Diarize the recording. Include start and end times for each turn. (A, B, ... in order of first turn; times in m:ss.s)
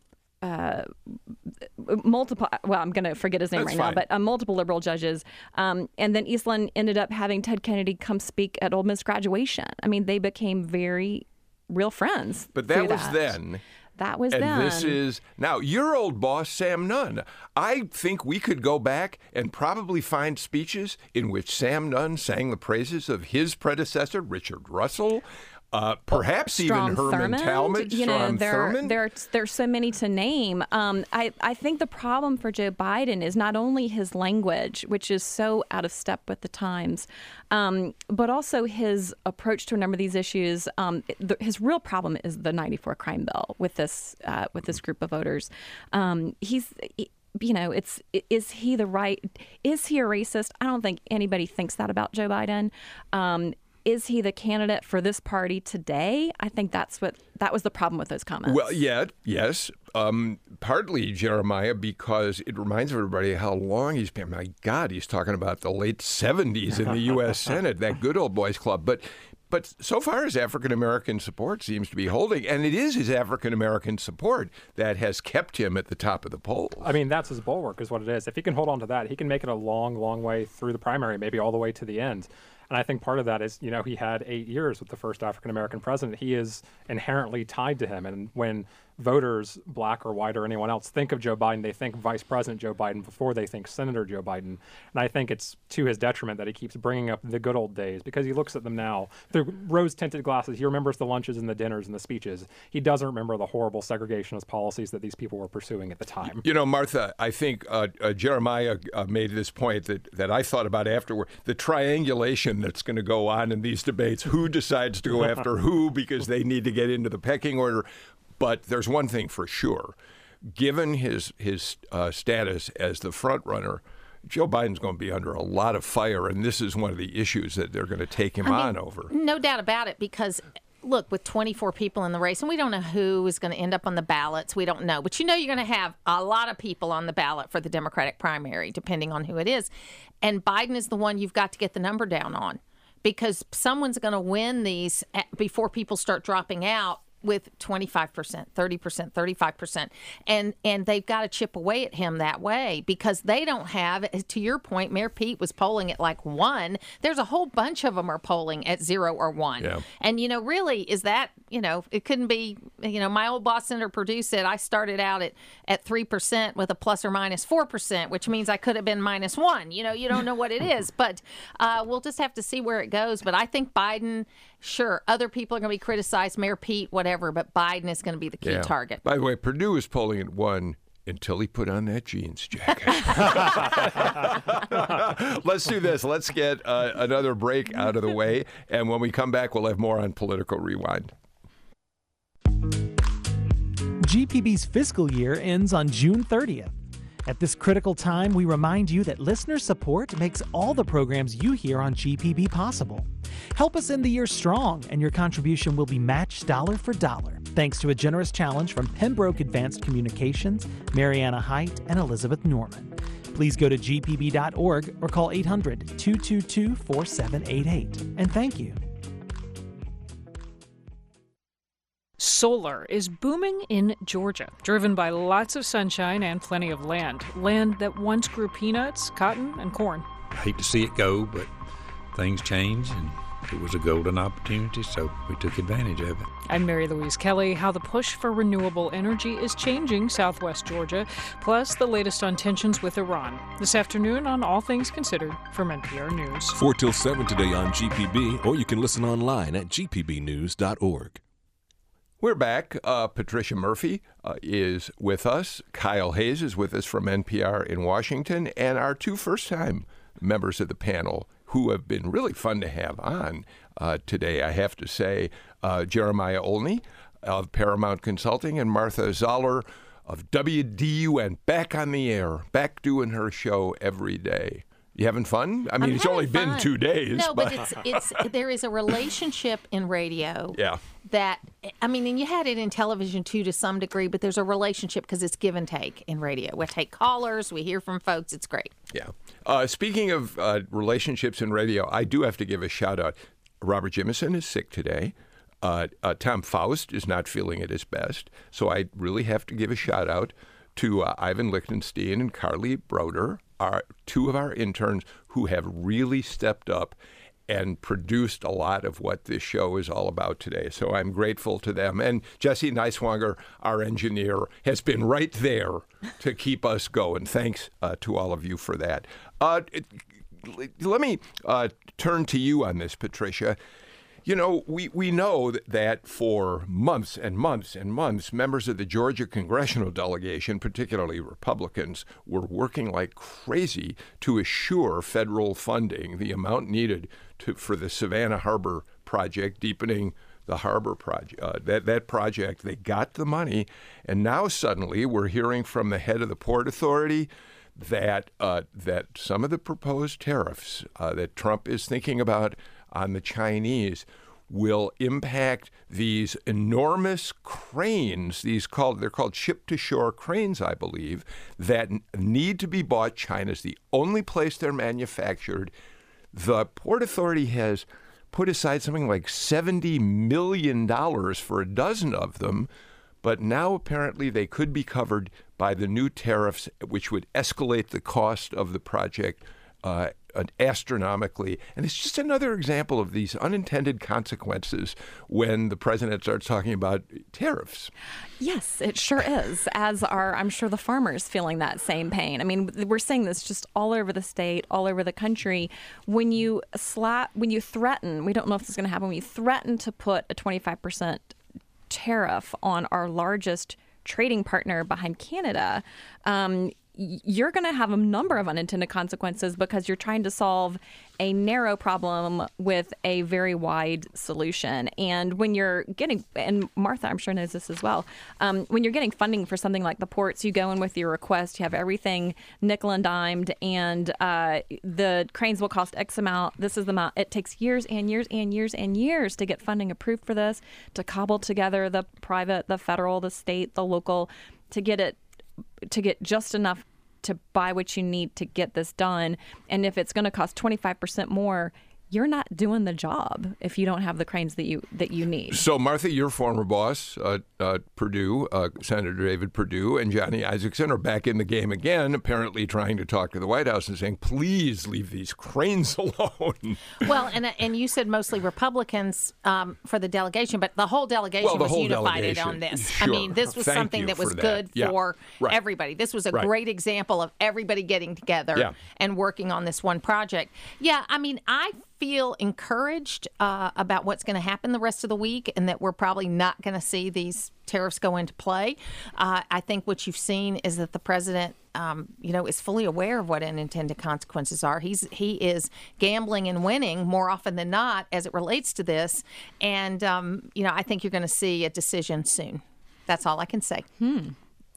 0:00.4-0:01.1 A
0:01.8-0:13.4 A
0:03.5-0:04.0 B
0:12.5-0:13.6 B
0:14.0-0:15.0 A
0:14.3-0:29.0 B
0:26.1-0:58.8 A
0:58.4-1:16.9 B
1:16.8-1:46.4 C
1:46.4-1:57.9 B
1:58.4-2:09.1 B
2:08.4-2:19.7 D
2:20.2-2:59.0 D
2:58.4-3:11.1 B
3:14.0-3:16.7 E
3:17.2-3:38.8 E
3:42.2-3:50.1 F
3:50.3-3:51.5 G
3:52.1-3:56.3 G
3:56.5-4:06.6 F
4:06.5-4:11.2 H
4:12.2-4:38.2 B
4:35.8-4:48.7 D
4:40.5-4:40.8 B
4:48.9-5:07.0 B
5:07.5-5:23.6 B
5:24.2-6:05.7 B
6:06.3-6:12.7 B
6:13.2-6:27.9 B
6:28.4-6:41.3 A
6:41.9-7:15.2 A
7:15.9-7:25.6 A
7:25.5-7:37.0 B
7:37.0-8:13.8 D
7:41.4-7:45.6 B
8:14.0-8:14.3 A